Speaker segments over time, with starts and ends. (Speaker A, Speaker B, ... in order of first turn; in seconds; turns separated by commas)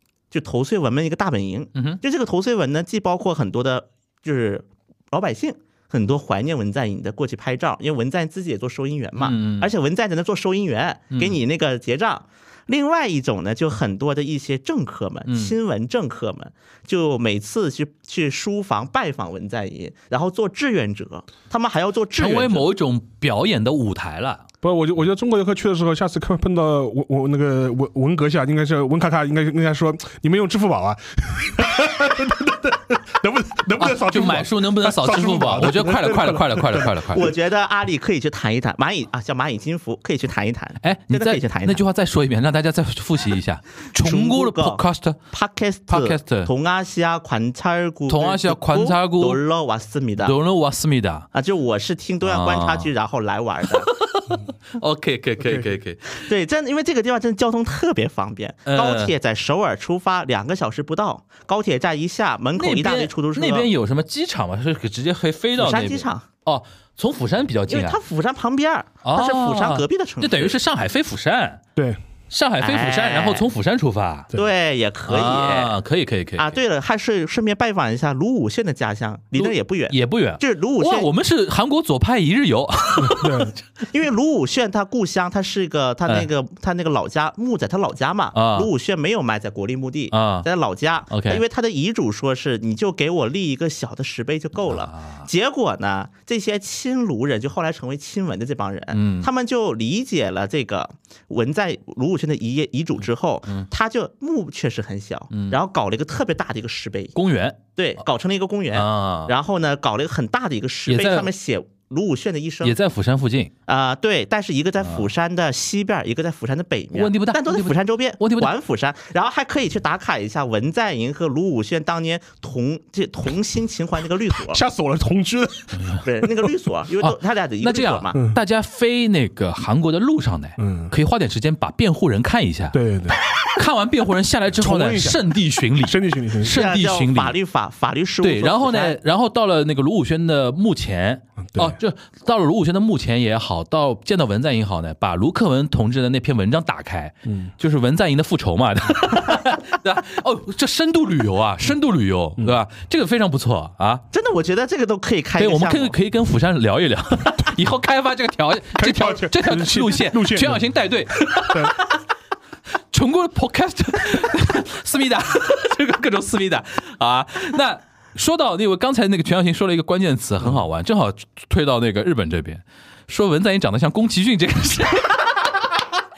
Speaker A: 0.3-22.6, Speaker B: 1.7-2.0, Speaker B: 9.2-9.7, Speaker B: 15.3-15.5, Speaker B: 22.2-24.4, Speaker C: 24.6-37.1, Speaker B: 33.8-37.3, Speaker A: 37.1-41.8, Speaker B: 40.8-45.2, Speaker A: 43.9-50.3, Speaker B: 45.9-46.5, Speaker B: 48.1-49.4, Speaker B: 50.2-51.3, Speaker A: 51.3-53.9, Speaker B: 52.2-52.9, Speaker B: 53.8-56.2, Speaker A: 56.1-63.7, Speaker B: 58.6-59.1, Speaker B: 62.6-68.0, Speaker A: 65.6-66.3, Speaker A: 67.7-70.6, Speaker B: 69.0-71.6, Speaker B: 72.3-74.3, Speaker A: 72.6-73.5, Speaker A: 74.3-75.7, Speaker B: 75.1-76.6, Speaker A: 76.4-81.1, Speaker B: 79.4-83.5, Speaker C: 83.0-83.5, Speaker A: 83.9-107.1, Speaker B: 88.3-88.7, Speaker B: 90.1-90.5, Speaker B: 91.1-91.4, Speaker B: 94.7-95.3, Speaker B: 98.9-99.3, Speaker B: 105.3-105.6, Speaker B: 107.1-107.7, Speaker A: 107.8-112.8, Speaker B: 108.7-109.3, Speaker B: 110.9-111.3, Speaker B: 112.6-113.5, Speaker A: 113.7-124.6, Speaker B: 114.8-115.1, Speaker B: 116.9-118.5, Speaker C: 124.3-125.9, Speaker A: 126.0-128.2, Speaker B: 127.0-132.8, Speaker C: 130.6-130.9, Speaker C: 132.7-133.2, Speaker B: 133.4-137.3, Speaker C: 134.5-135.2, Speaker C: 135.8-136.6, Speaker A: 136.5-139.0, Speaker B: 138.2-154.0, Speaker C: 141.5-141.8, Speaker C: 147.3-147.5, Speaker A: 154.1-155.9, Speaker B: 155.4-162.0, Speaker C: 158.7-160.7, Speaker C: 161.4-161.7, Speaker B: 162.9-175.7